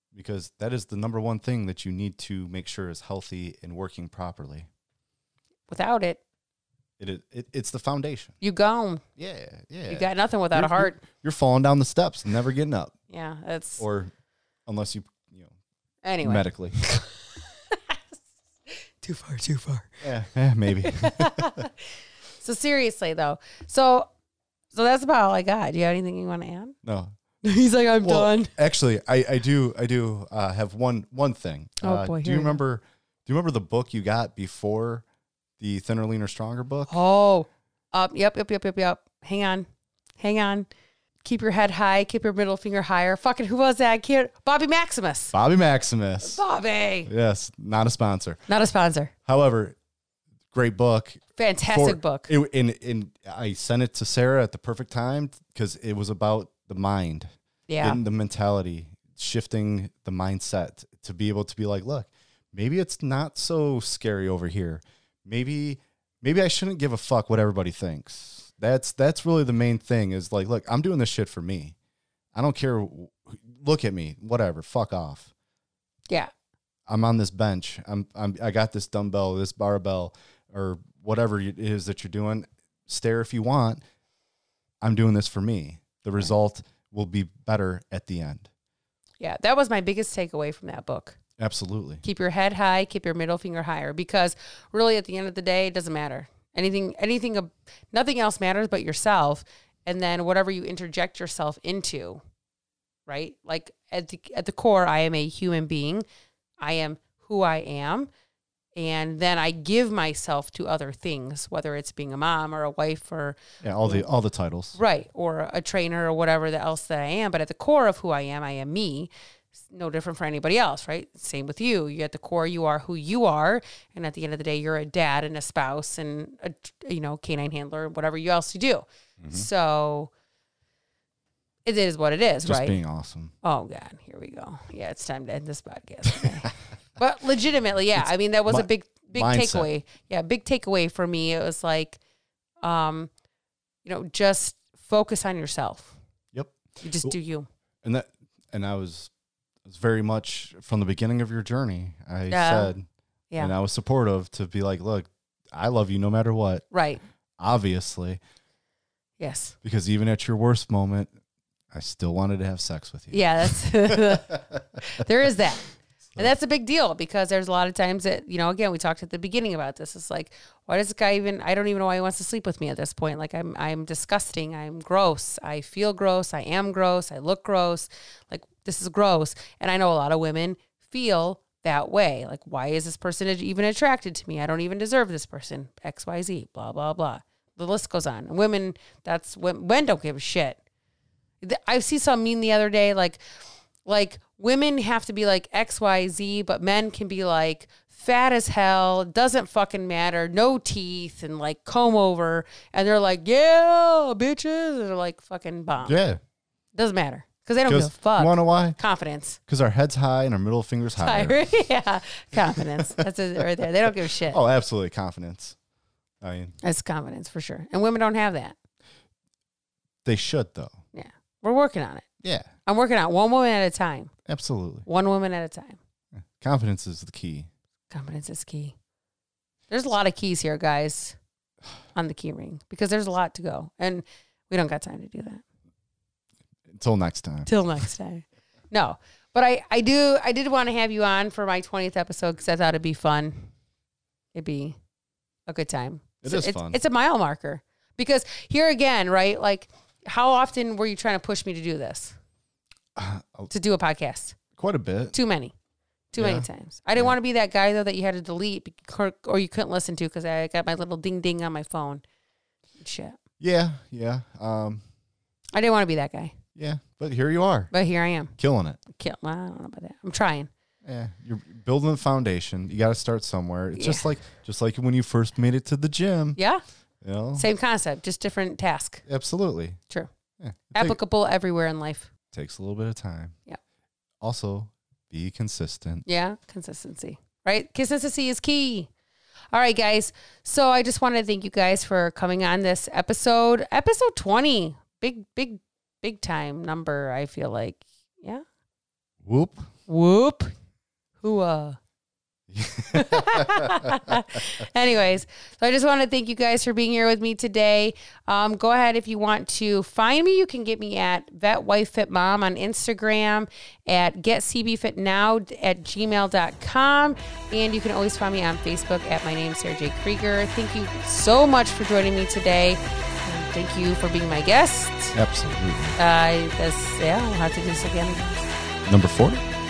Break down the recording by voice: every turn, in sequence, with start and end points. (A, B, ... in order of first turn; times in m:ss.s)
0:00.1-0:04.7 A
0:05.7-0:06.2 B
0:07.0-0:08.3 A
0:08.4-0:09.0 B
0:09.2-0:12.9 A
0:09.9-0:11.0 B
0:13.1-0:13.8 B
0:13.8-0:14.1 A
0:14.7-0:15.5 A
0:16.0-0:18.2 B
0:16.2-0:16.8 A
0:18.7-0:20.0 B
0:20.0-0:21.6 A
0:20.8-0:21.8 B
0:22.4-0:24.1 B
0:24.7-0:26.7 B
0:26.8-0:27.1 A
0:27.4-0:28.5 B
0:28.0-0:35.0 A
0:31.8-0:32.6 B
0:35.6-0:37.0 A
0:36.9-0:39.7 B
0:40.2-0:40.7 B
0:41.2-0:45.3 B
0:45.3-0:46.4 A
0:46.2-0:47.1 B
0:47.1-0:48.4 A
0:48.5-0:49.1 B
0:49.3-0:49.8 A
0:50.5-0:51.2 A
0:51.4-0:52.3 B
0:51.7-0:57.3 A
0:57.7-0:58.0 B
0:57.8-1:11.7 A
1:12.3-1:15.3 A
1:16.9-1:23.8 A
1:24.8-1:28.5 A
1:29.2-1:31.2 B
1:31.4-1:32.0 A
1:32.0-1:42.2 B
1:43.1-1:46.0 B
1:46.6-1:48.1 B
1:48.8-1:54.0 B
1:53.6-1:54.8 A
1:54.8-2:10.1 B
2:09.2-2:09.5 A
2:11.6-2:12.8 B
2:12.4-2:13.3 A
2:13.4-2:22.0 B
2:18.0-2:19.7 A
2:22.6-2:23.1 B
2:23.8-2:26.0 B
2:26.3-2:27.1 A
2:26.8-2:27.5 B
2:27.8-2:29.1 A
2:29.6-2:32.8 A
2:32.3-2:32.7 B
2:33.4-2:36.6 A
2:36.7-2:37.0 B
2:37.4-2:38.2 A
2:39.2-2:39.5 B
2:39.6-2:41.1 A
2:41.7-2:44.4 A
2:43.1-3:10.6 B
3:11.4-3:13.2 B
3:13.8-3:26.0 B
3:25.8-3:26.2 A
3:26.7-3:29.4 B
3:27.6-3:28.8 A
3:29.5-3:31.4 A
3:31.0-3:34.4 B
3:32.3-3:35.6 A
3:36.2-3:36.5 A
3:36.6-3:38.5 B
3:40.0-3:40.8 A
3:40.9-3:42.0 B
3:42.2-3:42.5 A
3:42.6-3:44.1 B
3:44.2-3:44.8 A
3:44.8-3:45.8 B
3:46.3-3:47.5 A
3:47.9-3:48.7 B
3:49.7-3:51.2 B
3:51.9-3:55.4 B
3:56.7-3:57.5 A
3:57.4-4:03.5 B
4:04.3-4:04.8 B
4:05.5-4:12.2 B
4:06.2-4:06.8 A
4:13.0-4:13.5 A
4:13.5-4:14.4 B
4:14.6-4:15.1 A
4:15.1-4:15.5 B
4:16.1-4:22.0 B
4:16.2-4:17.1 A
4:22.8-4:23.2 B
4:23.4-4:24.8 A
4:25.5-4:26.4 B
4:26.6-4:27.7 A
4:27.7-4:28.3 B
4:28.4-4:28.8 A
4:28.9-4:30.5 B
4:30.8-4:36.4 A
4:33.7-4:34.1 B
4:36.4-4:36.6 B
4:37.0-4:37.5 A
4:37.4-4:39.0 B
4:39.0-4:39.8 A
4:40.4-4:41.0 A
4:40.7-4:42.1 B
4:42.3-4:43.4 A
4:44.2-4:46.0 A
4:46.0-4:48.9 B
4:49.5-4:58.4 B
4:59.2-4:59.7 A
4:59.9-5:00.5 B
5:01.2-5:01.8 B
5:02.5-5:04.1 A
5:02.9-5:25.2 B
5:25.1-5:26.0 A
5:26.0-5:28.5 B
5:28.8-5:29.4 A